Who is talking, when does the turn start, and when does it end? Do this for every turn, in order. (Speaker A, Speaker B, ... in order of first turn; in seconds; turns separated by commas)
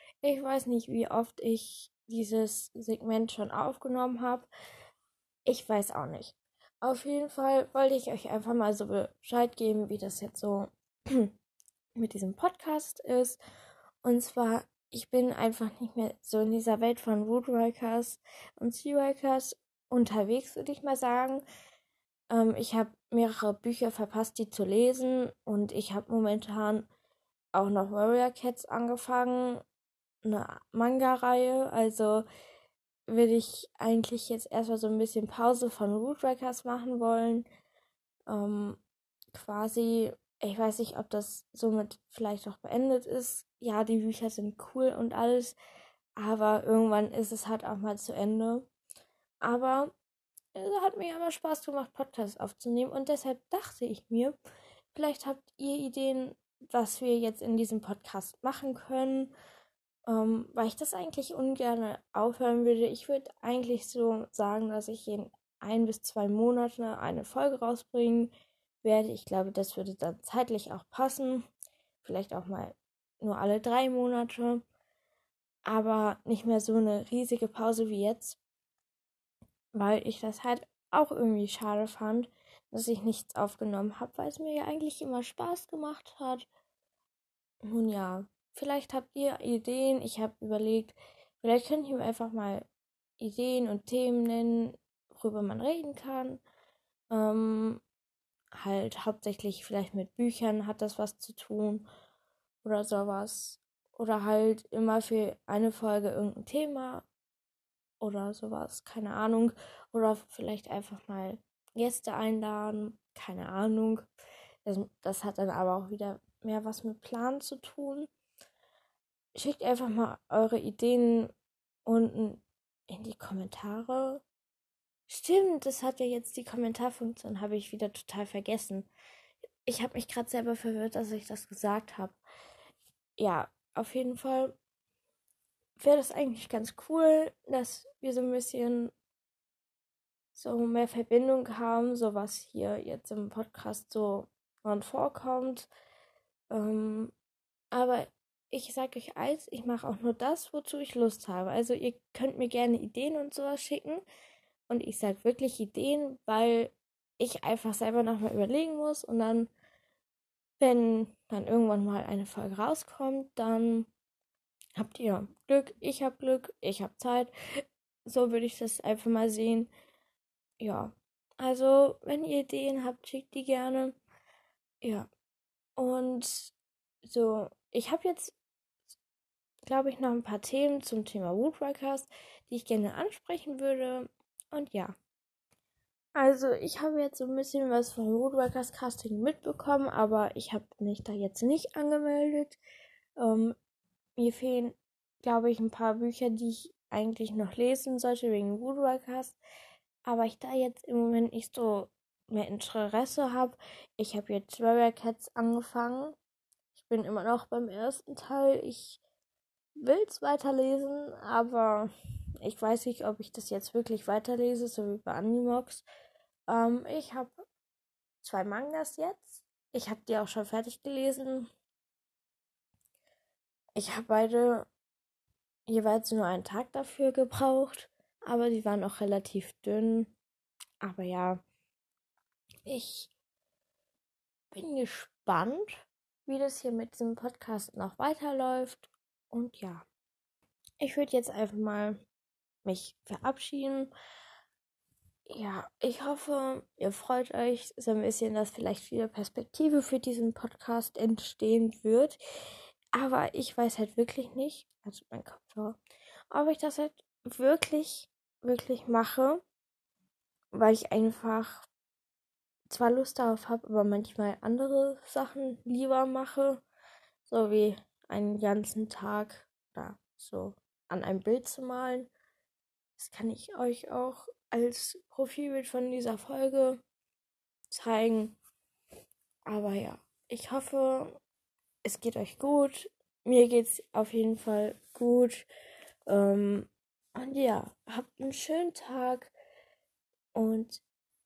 Speaker A: 0.2-4.5, Speaker A: 5.5-11.3, Speaker A: 11.9-13.4, Speaker A: 14.0-21.4, Speaker A: 22.3-26.9, Speaker A: 27.5-29.6, Speaker A: 30.2-32.2, Speaker A: 33.1-37.5, Speaker A: 38.3-38.8, Speaker A: 39.3-45.5, Speaker A: 46.2-48.7, Speaker A: 49.4-49.9, Speaker A: 50.5-54.4, Speaker A: 54.9-59.3, Speaker A: 60.1-68.3, Speaker A: 68.8-71.5, Speaker A: 72.0-74.6, Speaker A: 75.7-78.4, Speaker A: 79.7-86.5, Speaker A: 87.7-92.7, Speaker A: 93.2-96.4, Speaker A: 97.1-97.8, Speaker A: 98.6-101.9, Speaker A: 102.6-107.1, Speaker A: 108.0-114.1, Speaker A: 114.7-118.1, Speaker A: 119.3-121.3, Speaker A: 121.8-124.2, Speaker A: 125.1-128.9, Speaker A: 129.7-132.2, Speaker A: 133.2-134.5, Speaker A: 135.8-138.9, Speaker A: 140.3-145.7, Speaker A: 146.5-147.1, Speaker A: 147.7-154.0, Speaker A: 154.7-159.5, Speaker A: 160.6-163.9, Speaker A: 164.8-167.3, Speaker A: 168.1-169.7, Speaker A: 170.6-174.0, Speaker A: 174.8-175.1, Speaker A: 175.8-178.3, Speaker A: 179.7-184.9, Speaker A: 186.2-192.6, Speaker A: 193.2-193.6, Speaker A: 194.2-199.4, Speaker A: 200.1-206.2, Speaker A: 206.7-209.0, Speaker A: 209.8-211.9, Speaker A: 212.4-215.8, Speaker A: 216.5-217.3, Speaker A: 218.2-221.5, Speaker A: 223.8-224.7, Speaker A: 225.7-230.1, Speaker A: 230.8-231.4, Speaker A: 232.7-233.1, Speaker A: 234.5-239.9, Speaker A: 240.8-242.0, Speaker A: 242.7-243.9, Speaker A: 245.3-252.2, Speaker A: 252.9-255.8, Speaker A: 256.3-259.4, Speaker A: 260.5-261.7, Speaker A: 262.7-266.6, Speaker A: 267.3-272.1, Speaker A: 273.0-276.8, Speaker A: 277.7-278.4, Speaker A: 279.5-281.2, Speaker A: 281.8-285.5, Speaker A: 286.1-289.3, Speaker A: 290.3-290.8